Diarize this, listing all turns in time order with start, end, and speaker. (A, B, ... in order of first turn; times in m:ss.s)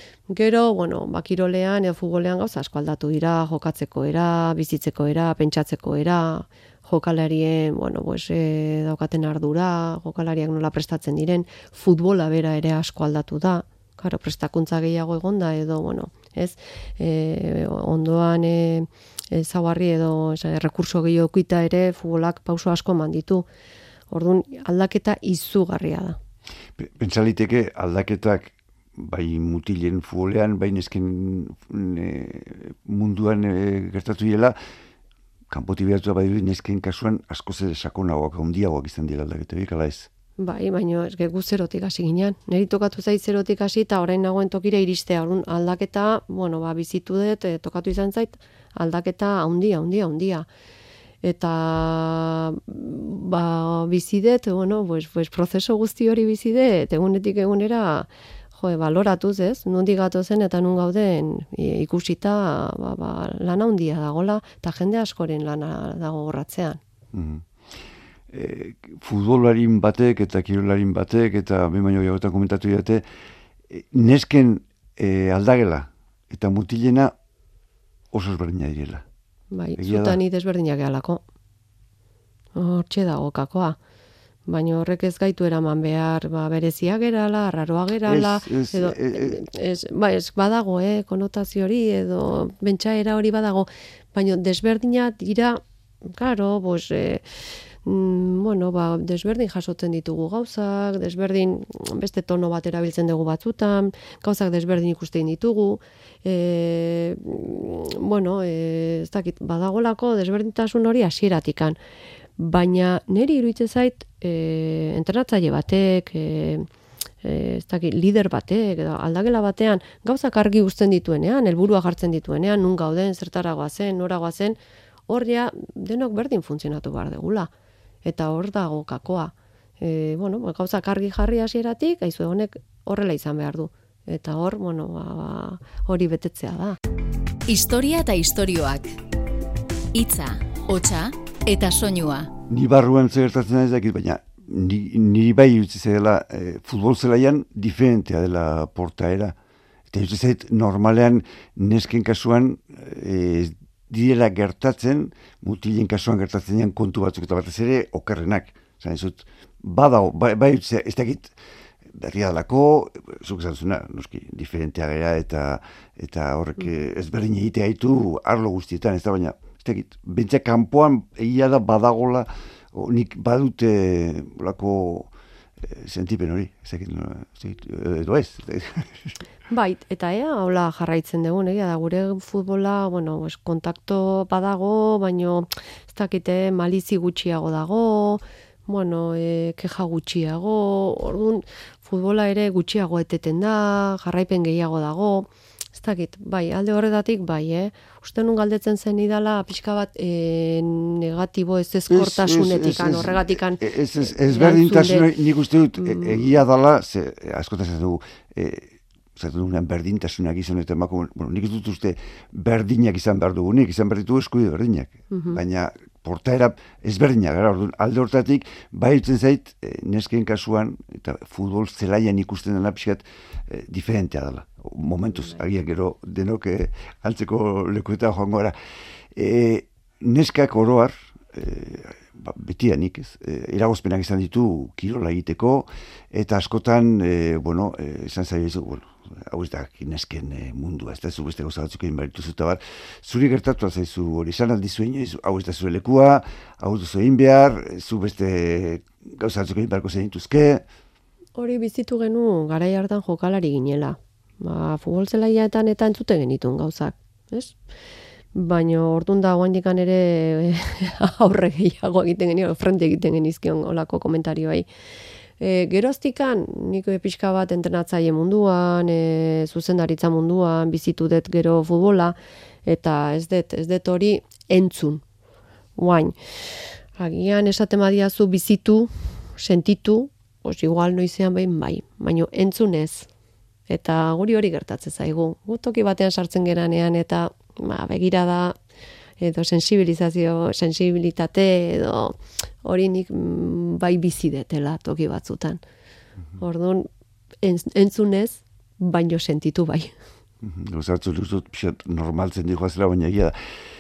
0:00.3-0:23.4 A
0:24.1-0:26.2 A
0:26.8-0:34.6 B
0:35.5-0:40.1 B
0:40.4-0:50.5 A
0:51.2-1:06.8 A
1:07.1-1:07.5 B
1:08.3-1:13.0 B
1:13.7-1:17.1 B
1:18.1-1:19.0 B
1:19.5-1:21.2 A
1:19.8-1:20.2 B
1:22.6-1:23.8 A
1:24.5-1:37.2 A
1:28.1-1:29.4 B
1:37.8-1:51.8 A
1:52.4-1:56.7 A
1:57.2-2:04.6 A
2:05.1-2:07.5 A
2:08.0-2:16.8 A
2:17.5-2:19.0 C
2:19.9-2:22.3 C
2:22.5-2:29.4 B
2:29.9-2:41.4 B
2:41.9-2:55.1 B
2:55.6-2:59.1 B
2:59.5-3:23.6 A
3:21.9-3:48.6 B
3:24.2-3:25.1 A
3:25.8-3:26.2 A
3:35.1-3:35.4 A
3:49.1-4:10.6 B
4:11.4-4:17.6 A
4:18.4-4:24.7 A
4:25.4-4:32.2 A
4:32.7-4:35.0 A
4:35.8-4:36.2 A
4:37.0-4:43.1 A
4:43.7-4:48.6 A
4:49.2-4:55.6 A
4:56.4-4:56.9 A
4:57.4-4:59.9 A
5:00.4-5:03.4 B